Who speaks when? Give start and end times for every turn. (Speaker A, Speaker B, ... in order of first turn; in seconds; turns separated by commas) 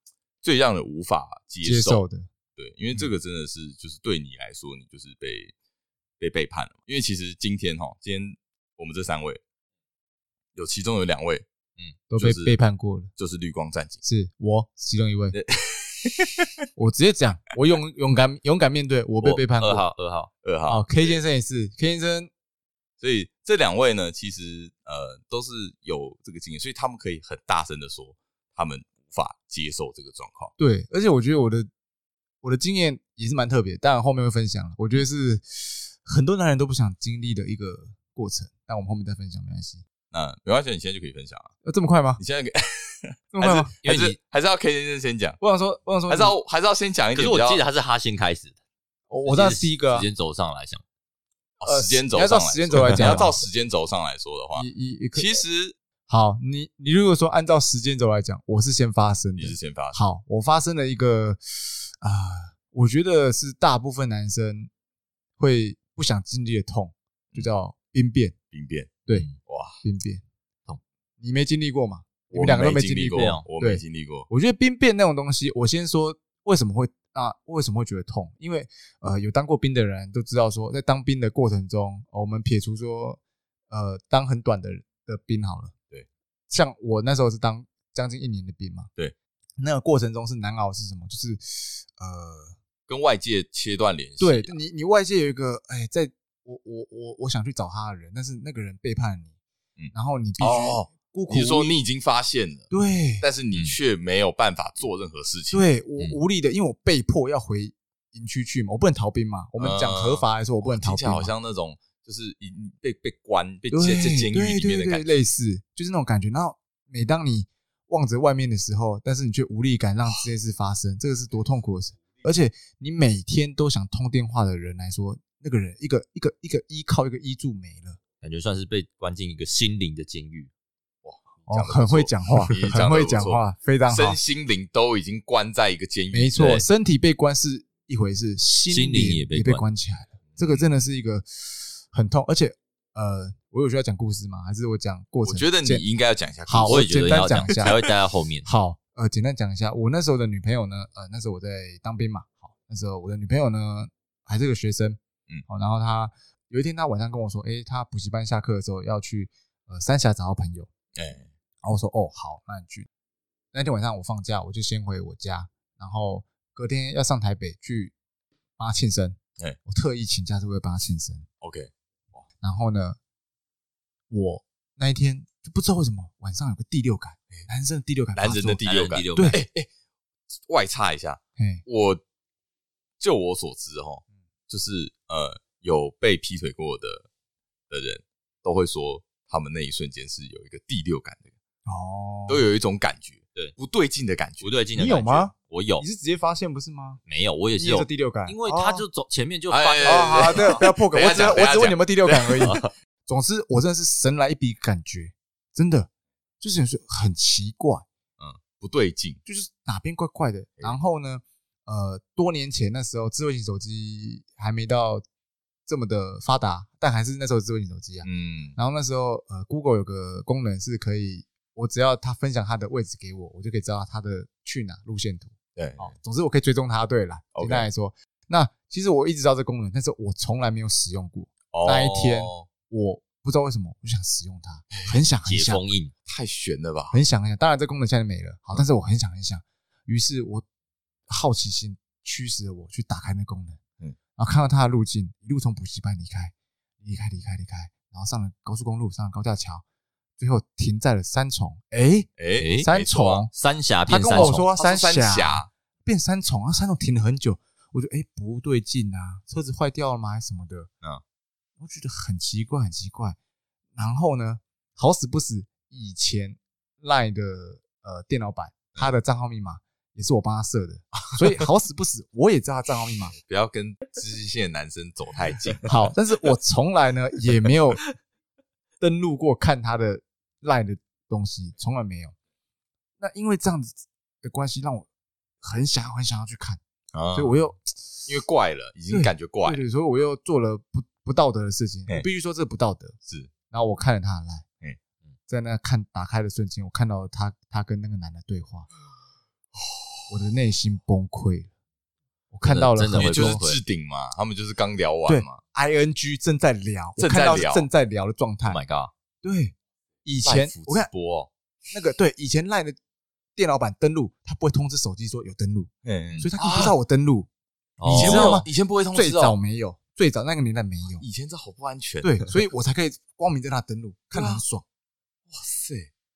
Speaker A: 0.4-2.0, Speaker B: 1.6-2.3, Speaker A: 2.6-5.5, Speaker A: 6.2-9.4, Speaker A: 10.6-12.6, Speaker B: 12.1-13.1, Speaker A: 13.2-14.0, Speaker B: 14.0-15.4, Speaker A: 15.3-16.5, Speaker B: 16.8-19.9, Speaker C: 19.2-20.3, Speaker A: 20.4-21.2, Speaker B: 20.7-22.3, Speaker A: 23.0-30.5, Speaker B: 30.6-31.7, Speaker B: 32.4-39.8, Speaker A: 40.1-41.5, Speaker B: 41.6-42.2, Speaker A: 42.2-45.4, Speaker B: 43.3-43.7, Speaker C: 43.8-44.2, Speaker B: 45.4-46.4, Speaker A: 46.1-47.6, Speaker C: 47.1-48.6, Speaker B: 49.1-50.1, Speaker C: 49.2-50.8, Speaker A: 51.6-55.8, Speaker B: 51.6-53.4, Speaker C: 52.8-53.3, Speaker B: 54.6-55.4, Speaker B: 56.1-64.7, Speaker A: 59.4-60.0, Speaker B: 65.4-68.3, Speaker A: 68.5-69.8, Speaker B: 69.8-70.2, Speaker B: 71.2-85.7, Speaker A: 72.3-74.3, Speaker B: 86.5-88.9, Speaker B: 89.6-92.6, Speaker A: 92.9-94.6, Speaker B: 94.2-99.3, Speaker A: 99.8-105.6, Speaker B: 99.9-101.7, Speaker B: 102.7-103.3, Speaker B: 105.5-111.3, Speaker A: 109.6-115.1, Speaker B: 113.7-128.0, Speaker C: 128.2-130.5, Speaker A: 131.0-136.6, Speaker B: 131.4-134.2, Speaker B: 136.1-145.8, Speaker C: 138.7-139.6, Speaker A: 140.3-140.6, Speaker A: 145.2-147.8, Speaker B: 146.5-147.8, Speaker C: 146.7-148.5, Speaker B: 148.4-160.7, Speaker A: 160.9-161.3, Speaker B: 161.6-162.9, Speaker B: 163.5-167.9, Speaker B: 168.6-171.2, Speaker A: 171.4-172.3, Speaker B: 172.4-173.0, Speaker B: 174.1-178.6, Speaker A: 178.1-179.7, Speaker C: 178.6-179.4, Speaker A: 180.4-182.0, Speaker B: 181.4-181.6, Speaker A: 183.0-187.1, Speaker A: 187.7-191.3, Speaker B: 191.7-192.4, Speaker A: 192.3-194.5, Speaker C: 194.4-195.8, Speaker B: 194.8-197.0, Speaker C: 197.1-200.6, Speaker B: 197.6-198.8, Speaker A: 199.5-202.6, Speaker B: 199.8-205.9, Speaker C: 202.4-202.7, Speaker B: 206.4-207.9, Speaker A: 208.2-209.2, Speaker B: 209.2-215.0, Speaker B: 215.7-235.6, Speaker A: 218.0-218.6, Speaker A: 225.6-225.9, Speaker A: 227.3-227.7, Speaker A: 231.5-232.5, Speaker C: 235.3-235.9, Speaker A: 236.1-237.0, Speaker B: 236.9-240.4, Speaker B: 241.1-243.6, Speaker B: 244.2-249.6, Speaker B: 250.2-252.1, Speaker A: 252.2-253.3, Speaker C: 252.4-252.7, Speaker B: 252.6-253.3, Speaker C: 253.3-254.4, Speaker B: 253.9-260.7, Speaker A: 254.1-255.5, Speaker B: 261.6-263.2, Speaker B: 263.8-273.1, Speaker A: 273.1-275.7, Speaker B: 275.6-277.8, Speaker B: 278.8-282.1, Speaker B: 283.0-284.9, Speaker B: 285.4-286.6, Speaker A: 286.9-287.4, Speaker B: 287.1-288.1, Speaker A: 288.1-289.6, Speaker B: 288.9-292.9, Speaker B: 293.5-294.4, Speaker B: 295.3-298.7, Speaker A: 299.5-300.1, Speaker B: 300.1-301.5, Speaker B: 302.3-303.4, Speaker C: 302.4-303.6, Speaker A: 302.9-305.4, Speaker B: 305.1-308.6, Speaker A: 307.0-307.7, Speaker C: 308.4-308.9, Speaker B: 309.2-309.5, Speaker B: 310.1-310.9, Speaker A: 310.2-311.3, Speaker B: 311.7-312.8, Speaker B: 313.4-317.3, Speaker A: 315.8-316.7, Speaker C: 317.8-318.4, Speaker B: 317.8-321.1, Speaker A: 317.9-319.4, Speaker A: 321.0-322.3, Speaker B: 322.0-324.6, Speaker A: 324.1-324.4, Speaker A: 325.3-325.9